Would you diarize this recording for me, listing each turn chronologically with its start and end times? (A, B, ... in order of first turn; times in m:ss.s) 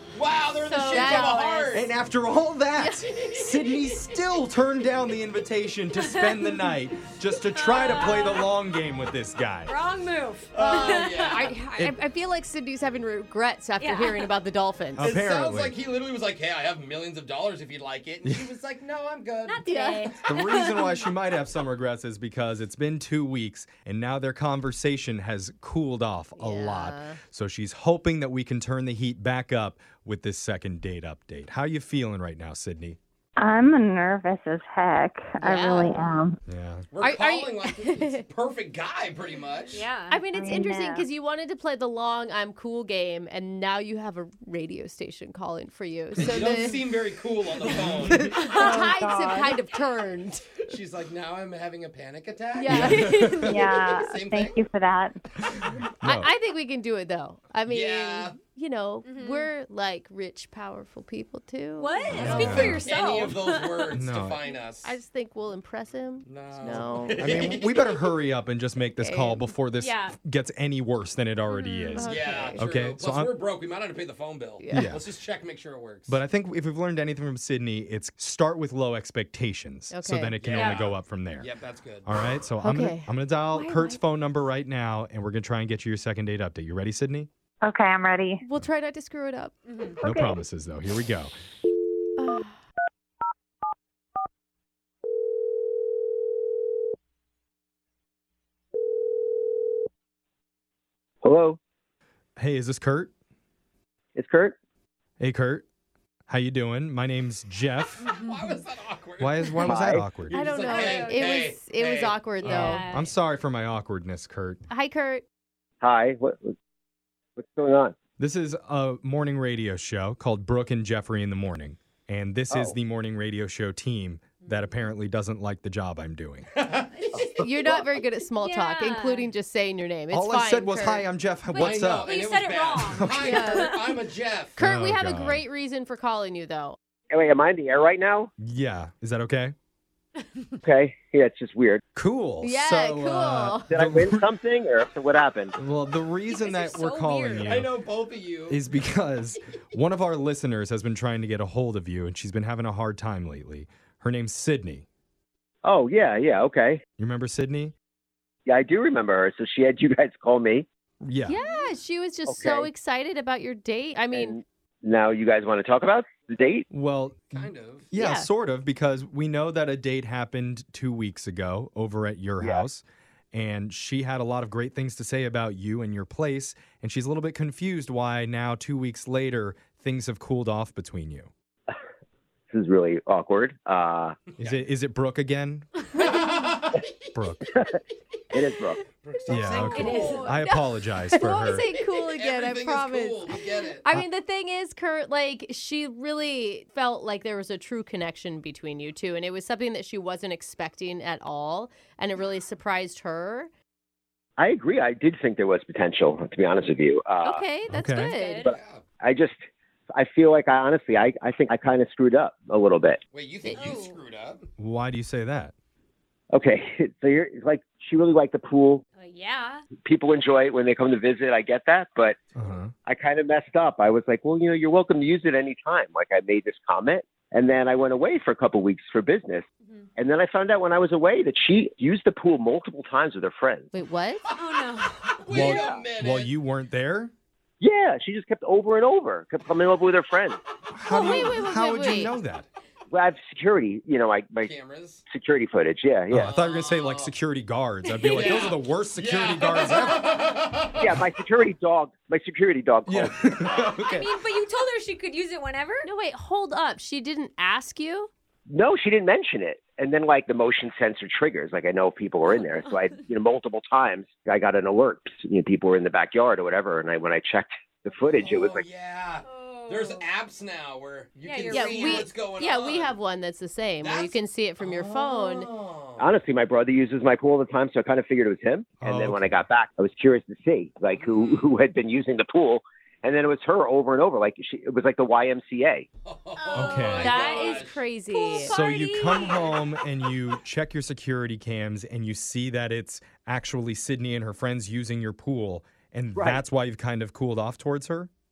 0:00.1-0:01.9 A
0:00.6-0:01.8 B
0:01.7-0:09.8 C
0:02.8-0:03.1 B
0:03.2-0:03.4 A
0:06.0-0:06.7 D
0:07.5-0:08.5 D
0:09.7-0:11.4 D
0:10.5-0:11.6 A
0:10.7-0:15.2 B
0:13.8-0:14.3 D
0:15.0-0:15.8 C
0:15.0-0:19.6 A
0:19.4-0:21.1 D
0:19.6-0:20.2 B
0:20.2-0:33.0 C
0:26.4-0:27.2 B
0:33.4-0:36.4 E
0:35.4-0:36.0 B
0:36.5-0:36.9 C
0:36.9-0:39.9 A
0:37.0-0:38.2 B
0:39.7-0:40.2 D
0:40.1-0:46.8 B
0:40.3-0:41.1 E
0:46.2-0:46.8 C
0:46.2-0:48.4 A
0:48.0-0:50.6 B
0:48.4-0:48.9 D
0:48.5-0:49.6 E
0:50.6-0:54.6 A
0:52.5-0:53.2 B
0:52.7-0:53.6 C
0:52.8-0:53.6 D
0:53.4-0:55.2 E
0:55.4-0:56.3 C
0:56.0-1:02.8 B
0:57.7-0:58.4 A
0:59.0-0:59.5 D
1:01.8-1:03.9 D
1:02.1-1:02.9 C
1:02.2-1:04.9 A
1:03.9-1:04.4 C
1:04.8-1:07.4 B
1:06.2-1:07.7 A
1:07.2-1:13.4 C
1:09.0-1:09.5 B
1:09.8-1:10.2 D
1:11.5-1:12.6 B
1:12.0-1:16.2 A
1:14.6-1:14.9 B
1:14.7-1:15.1 C
1:16.1-1:21.5 C
1:19.9-1:20.4 B
1:20.4-1:22.1 A
1:20.6-1:20.9 D
1:22.0-1:27.3 C
1:22.6-1:24.0 B
1:27.6-1:28.4 E
1:28.4-1:29.5 B
1:29.7-1:30.0 D
1:30.0-1:30.4 E
1:30.0-1:31.3 C
1:32.2-1:32.6 B
1:41.2-1:41.6 F
1:42.4-1:43.1 C
1:44.2-1:44.6 F
1:45.2-1:45.6 C
1:46.3-1:48.1 C
1:48.1-1:48.5 D
1:48.1-1:49.6 A
1:49.2-1:50.4 C
1:49.7-1:50.1 F
1:50.3-1:52.8 A
1:50.3-1:52.8 B
1:50.7-1:51.5 D
1:52.4-1:53.1 D
1:52.5-1:54.6 C
1:54.7-1:55.2 B
1:55.8-1:56.5 F
1:57.4-1:57.9 F
1:58.2-2:06.5 C
2:02.5-2:02.8 F
2:06.6-2:06.9 A
2:06.9-2:07.3 D
2:07.1-2:07.9 F
2:07.2-2:11.1 B
2:08.4-2:09.3 D
2:10.1-2:12.1 C
2:11.5-2:14.0 D
2:11.6-2:14.6 A
2:12.9-2:13.5 C
2:13.2-2:13.7 B
2:14.6-2:16.8 B
2:14.6-2:15.4 C
2:17.1-2:18.3 F
2:18.4-2:19.6 C
2:20.6-2:21.8 F
2:22.0-2:24.3 C
2:22.4-2:23.7 B
2:23.7-2:25.5 F
2:25.5-2:27.7 C
2:26.3-2:27.5 D
2:27.4-2:28.6 A
2:28.5-2:34.8 C
2:35.6-2:36.8 F
2:37.0-2:37.7 C
2:38.5-2:40.7 F
2:41.0-2:41.4 C
2:41.3-2:44.4 B
2:42.3-2:42.7 F
2:44.1-2:46.6 F
2:46.7-3:01.3 C
2:47.3-2:47.9 A
2:47.9-2:48.3 B
2:52.4-2:52.7 F
3:02.5-3:04.2 F
3:04.4-3:04.6 A
3:04.4-3:06.3 C
3:06.0-3:06.9 A
3:07.1-3:07.5 C
3:07.5-3:07.8 F
3:08.3-3:08.8 F
3:09.0-3:10.4 A
3:09.3-3:11.7 C
3:09.5-3:10.4 D
3:09.8-3:23.5 B
3:11.7-3:13.9 A
3:24.4-3:27.4 F
3:27.2-3:28.4 B
3:27.7-3:28.1 C
3:28.0-3:28.6 D
3:28.4-3:29.4 F
3:28.5-3:28.8 A
3:29.9-3:33.0 F
3:33.1-3:34.5 A
3:33.5-3:34.0 D
3:34.6-3:35.5 C
3:36.3-3:38.8 F
3:39.0-3:39.6 D
3:39.8-3:42.2 F
3:42.4-3:42.7 C
3:42.9-3:49.4 F
3:50.0-3:53.7 F
3:53.7-3:54.2 B
3:54.3-3:55.2 D
3:54.4-3:56.3 A
3:55.3-3:57.1 C
3:55.3-3:55.9 F
3:57.6-4:00.4 F
4:00.7-4:02.5 C
4:00.9-4:02.2 B
4:00.9-4:01.3 D
4:02.9-4:04.5 F
4:04.4-4:05.0 A
4:05.1-4:06.3 F
4:06.1-4:10.1 C
4:06.2-4:07.1 A
4:08.1-4:11.0 A
4:08.3-4:08.5 D
4:10.8-4:13.6 F
4:12.9-4:14.1 C
4:13.6-4:15.9 D
4:15.8-4:18.1 B
4:18.5-4:28.6 F
4:22.3-4:22.9 D
4:28.1-4:33.0 A
4:29.2-4:30.1 D
4:31.2-4:32.1 D
4:31.5-4:35.5 B
4:33.8-4:36.1 A
4:36.0-4:45.9 F
4:38.8-4:39.5 C
4:41.0-4:41.5 A
4:46.0-4:47.8 A
4:46.4-4:50.1 D
4:46.5-4:47.2 C
4:47.0-4:48.6 B
4:48.3-4:58.1 C
4:56.2-4:56.4 F